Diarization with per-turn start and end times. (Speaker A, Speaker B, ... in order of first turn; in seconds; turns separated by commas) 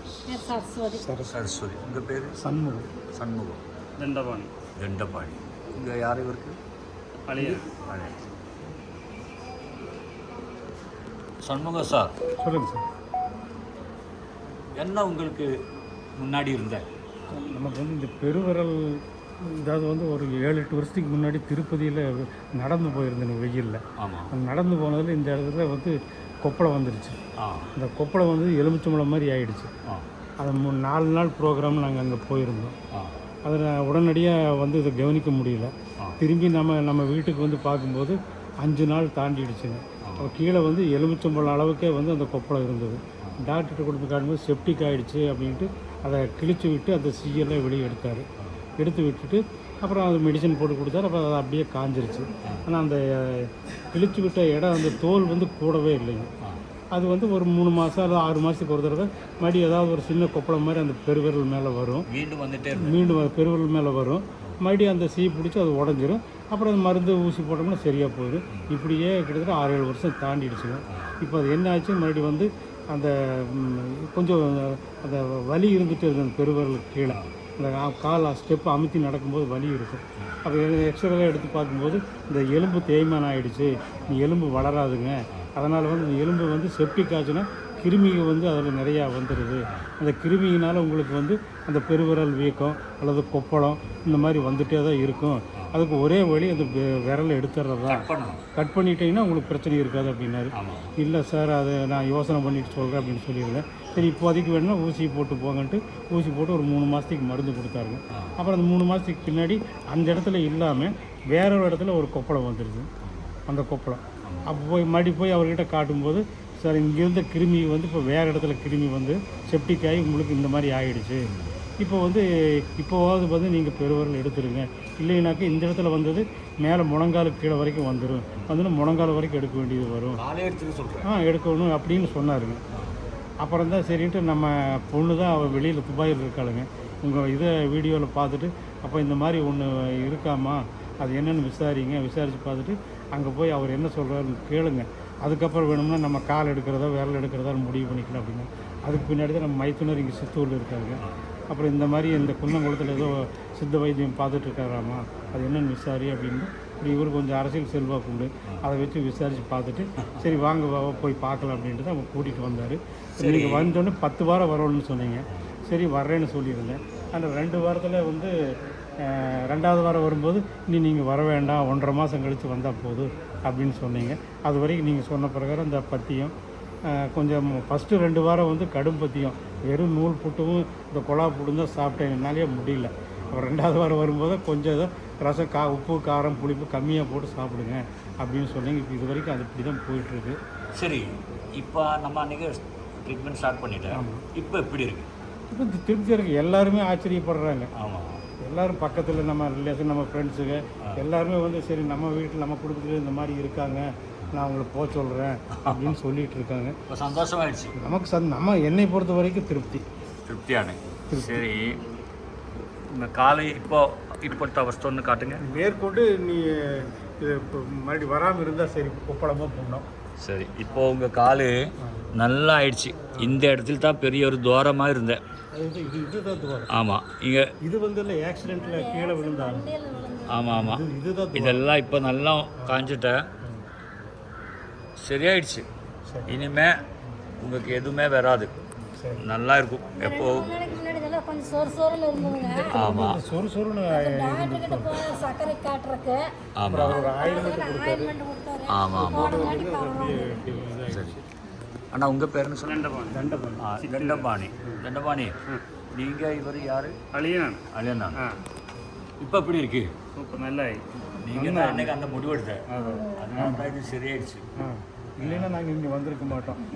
Speaker A: 0.3-1.1, Speaker B: 1.0-1.3, Speaker C: 1.3-2.4, Speaker B: 2.4-2.9, Speaker C: 3.1-3.6, Speaker D: 4.0-4.5, Speaker C: 4.8-6.6, Speaker D: 7.3-7.6, Speaker C: 7.3-8.1, Speaker C: 11.4-12.1, Speaker B: 12.4-12.8, Speaker C: 14.8-15.5, Speaker C: 16.2-16.9, Speaker B: 17.3-27.2, Speaker C: 24.0-24.3, Speaker C: 27.4-27.7, Speaker B: 27.8-29.7, Speaker B: 30.4-32.8, Speaker B: 33.4-48.3, Speaker C: 40.0-40.3, Speaker B: 48.8-56.3, Speaker B: 56.9-62.1, Speaker C: 62.1-63.0, Speaker B: 62.8-112.9, Speaker C: 97.9-98.4, Speaker C: 100.5-100.9, Speaker C: 113.1-113.3, Speaker B: 113.5-121.3, Speaker C: 121.3-121.5, Speaker B: 121.8-130.2, Speaker C: 130.2-131.1, Speaker B: 131.0-132.6, Speaker B: 133.4-168.3, Speaker C: 163.2-163.7, Speaker B: 169.0-176.3, Speaker B: 176.9-190.4, Speaker C: 190.8-195.1, Speaker B: 193.9-194.2, Speaker B: 195.5-197.7, Speaker C: 197.8-198.2, Speaker B: 198.4-206.8, Speaker C: 205.6-205.9, Speaker C: 206.9-207.8, Speaker B: 207.8-209.8, Speaker C: 210.3-211.8, Speaker B: 211.1-211.4, Speaker C: 212.9-215.4, Speaker B: 215.4-219.9, Speaker C: 220.2-221.6, Speaker C: 222.2-225.2, Speaker B: 225.6-226.7, Speaker C: 226.7-227.5, Speaker B: 227.6-229.7, Speaker A: 228.6-230.5, Speaker C: 230.3-230.8, Speaker B: 230.5-231.7, Speaker C: 231.3-233.2, Speaker C: 235.0-235.7, Speaker C: 236.3-236.8, Speaker C: 237.4-238.5, Speaker B: 239.0-239.2, Speaker C: 239.2-240.5, Speaker A: 240.0-242.9, Speaker B: 242.2-245.1, Speaker C: 242.7-243.2, Speaker A: 243.9-250.5, Speaker C: 246.6-247.0, Speaker B: 246.7-248.2, Speaker C: 248.7-249.4, Speaker B: 248.9-251.2, Speaker C: 250.9-251.2, Speaker C: 251.9-252.8, Speaker D: 252.7-253.2, Speaker B: 253.1-253.7, Speaker C: 253.6-255.3, Speaker D: 253.8-254.3, Speaker C: 255.9-256.9, Speaker D: 257.1-257.6, Speaker C: 257.7-258.2, Speaker C: 259.2-259.9, Speaker D: 260.1-260.8, Speaker C: 261.2-264.4, Speaker B: 261.3-261.9, Speaker D: 262.7-263.0, Speaker B: 263.4-263.7, Speaker B: 264.6-266.6, Speaker C: 265.2-265.5